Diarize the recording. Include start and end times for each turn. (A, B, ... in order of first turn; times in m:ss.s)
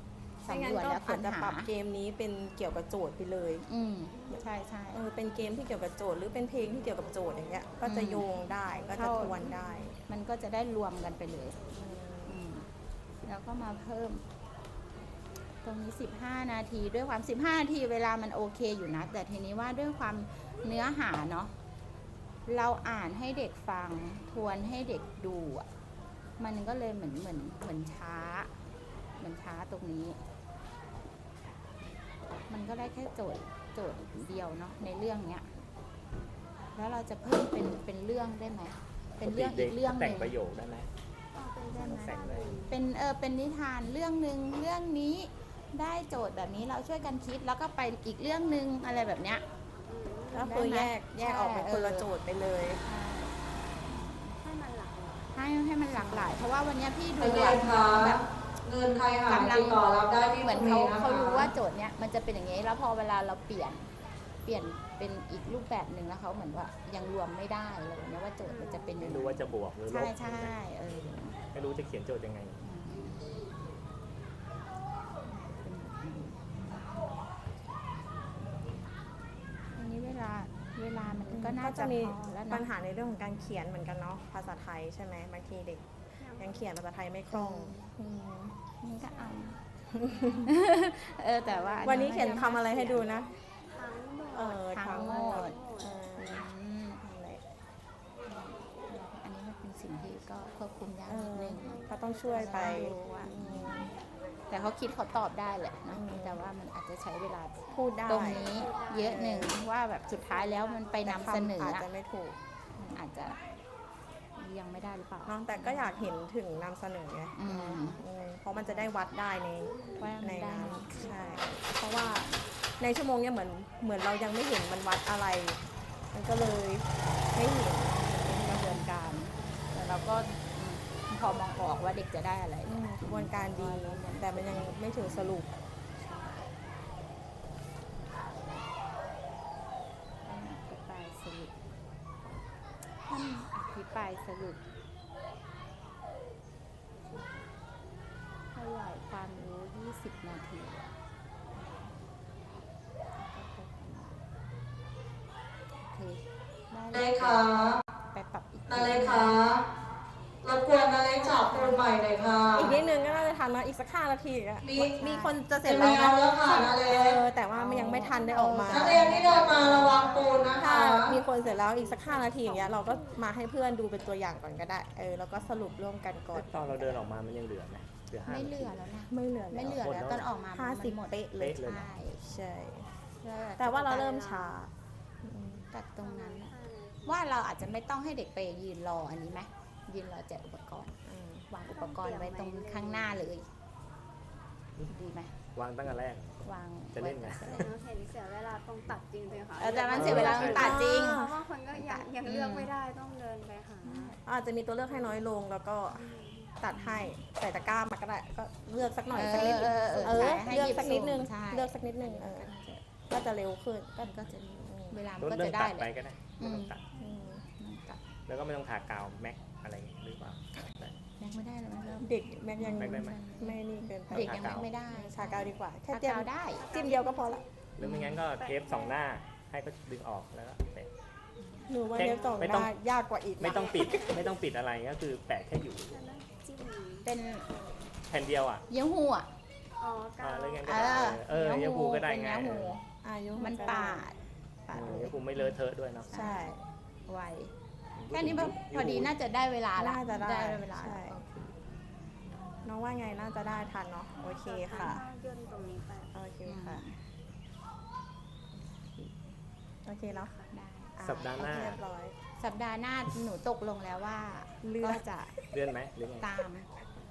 0:00.4-0:01.7 A
0:00.5-0:03.7 B
0:03.7-0:05.0 A
0:04.9-0:10.0 B
0:07.8-0:08.3 A
0:09.0-0:11.7 A
0:11.7-0:12.4 B
0:12.3-0:12.7 A
0:13.2-0:14.2 A
0:15.6-0:21.5 A
0:22.5-0:25.7 A
0:26.4-0:28.5 A
0:29.2-0:30.2 A
0:32.5-0:35.5 A
0:36.8-0:40.3 A
0:39.2-0:40.9 C
0:41.4-0:42.8 D
0:41.8-0:42.1 A
0:41.8-0:42.6 C
0:42.7-0:49.4 A
0:49.9-0:50.5 D
0:50.3-0:52.8 B
0:50.4-0:52.1 A
0:52.8-0:54.4 A
0:54.4-0:55.4 D
0:55.3-0:58.3 A
0:56.0-0:56.4 D
0:57.2-0:58.1 E
0:58.7-1:01.2 E
0:59.3-1:03.9 A
1:04.4-1:11.4 A
1:08.5-1:08.9 B
1:09.0-1:10.5 C
1:11.5-1:12.6 C
1:12.6-1:13.4 A
1:15.2-1:17.0 A
1:19.8-1:22.7 A
1:21.3-1:25.9 B
1:26.2-1:26.7 D
1:26.4-1:28.6 B
1:27.3-1:27.8 A
1:28.7-1:29.6 A
1:30.0-1:30.4 B
1:30.4-1:33.1 A
1:31.4-1:32.5 D
1:31.8-1:33.3 B
1:33.7-1:36.0 D
1:34.3-1:36.5 B
1:34.7-1:35.6 A
1:36.2-1:37.0 A
1:37.0-1:37.4 B
1:38.2-1:41.8 A
1:41.1-1:43.9 B
1:41.6-1:42.6 D
1:42.3-1:43.9 A
1:44.5-1:51.9 A
1:45.9-1:46.4 B
1:47.7-1:49.6 B
1:48.1-1:49.2 D
1:50.1-1:51.3 D
1:51.0-1:52.4 B
1:52.8-1:53.4 A
1:53.2-1:53.6 D
1:54.4-1:55.9 A
1:55.3-2:05.6 B
1:57.4-1:58.0 A
1:58.6-1:58.9 A
2:00.0-2:02.4 A
2:00.9-2:01.4 D
2:06.1-2:08.9 B
2:08.1-2:15.4 A
2:12.7-2:15.5 B
2:16.0-2:16.5 A
2:18.0-2:18.6 A
2:20.2-2:21.5 A
2:23.1-2:24.6 A
2:27.1-2:27.4 A
2:28.5-2:30.9 A
2:31.6-2:31.9 A
2:33.2-2:34.2 A
2:35.8-2:39.6 A
2:36.9-2:37.6 E
2:38.7-2:39.5 E
2:40.4-2:42.4 E
2:41.2-2:41.9 A
2:42.5-2:49.7 B
2:42.7-2:43.3 A
2:44.7-2:45.4 A
2:45.7-2:47.2 E
2:47.6-2:50.8 A
2:47.7-2:48.0 C
2:48.8-2:51.1 E
2:50.5-2:57.0 B
2:51.1-2:53.2 D
2:55.4-2:55.7 A
2:56.3-2:58.9 C
2:58.3-3:02.2 A
2:59.1-2:59.8 B
2:59.6-3:00.3 C
3:00.5-3:01.2 B
3:01.4-3:01.9 C
3:02.2-3:02.9 B
3:03.2-3:04.3 A
3:03.6-3:04.7 B
3:04.2-3:04.6 D
3:05.2-3:05.7 B
3:05.6-3:06.6 A
3:06.0-3:07.3 D
3:07.1-3:11.0 A
3:11.1-3:11.5 B
3:11.5-3:13.5 A
3:11.6-3:13.3 D
3:14.9-3:15.4 A
3:15.5-3:16.4 C
3:16.4-3:17.7 A
3:16.9-3:17.7 C
3:17.4-3:24.2 D
3:19.6-3:21.2 A
3:19.9-3:20.7 C
3:20.1-3:21.4 B
3:21.7-3:22.7 A
3:23.8-3:24.2 A
3:24.2-3:32.5 B
3:24.9-3:25.2 D
3:25.9-3:26.6 D
3:26.7-3:27.2 A
3:29.1-3:33.0 A
3:33.1-3:35.0 B
3:34.0-3:38.1 A
3:35.2-3:36.8 C
3:37.0-3:37.4 B
3:38.3-3:41.0 C
3:41.2-3:46.7 A
3:42.0-3:47.4 B
3:42.7-3:43.2 C
3:44.1-3:44.7 C
3:46.6-3:47.5 D
3:47.8-3:50.9 C
3:47.8-3:48.2 A
3:48.2-3:49.0 D
3:51.4-3:51.7 A
3:51.7-3:53.9 B
3:51.9-3:52.5 D
3:52.0-3:52.7 C
3:53.4-3:56.0 C
3:53.5-3:54.4 D
3:55.9-3:57.1 D
3:57.0-3:57.5 A
3:58.1-3:58.6 C
3:58.7-3:59.3 A
3:59.8-4:00.8 D
4:00.2-4:02.8 C
4:00.6-4:02.8 A
4:03.0-4:04.0 B
4:03.4-4:06.5 A
4:04.7-4:06.1 C
4:06.1-4:06.6 B
4:07.1-4:07.5 A
4:08.0-4:09.1 C
4:08.1-4:11.2 A
4:09.8-4:11.2 B
4:12.6-4:15.0 B
4:14.2-4:16.2 D
4:16.1-4:16.8 B
4:16.5-4:17.0 A
4:18.7-4:19.2 A
4:19.9-4:20.3 B
4:20.0-4:20.5 D
4:20.5-4:21.5 A
4:21.0-4:22.2 B
4:21.0-4:21.8 C
4:22.4-4:25.4 A
4:24.6-4:25.0 B
4:25.5-4:26.3 C
4:26.2-4:26.7 A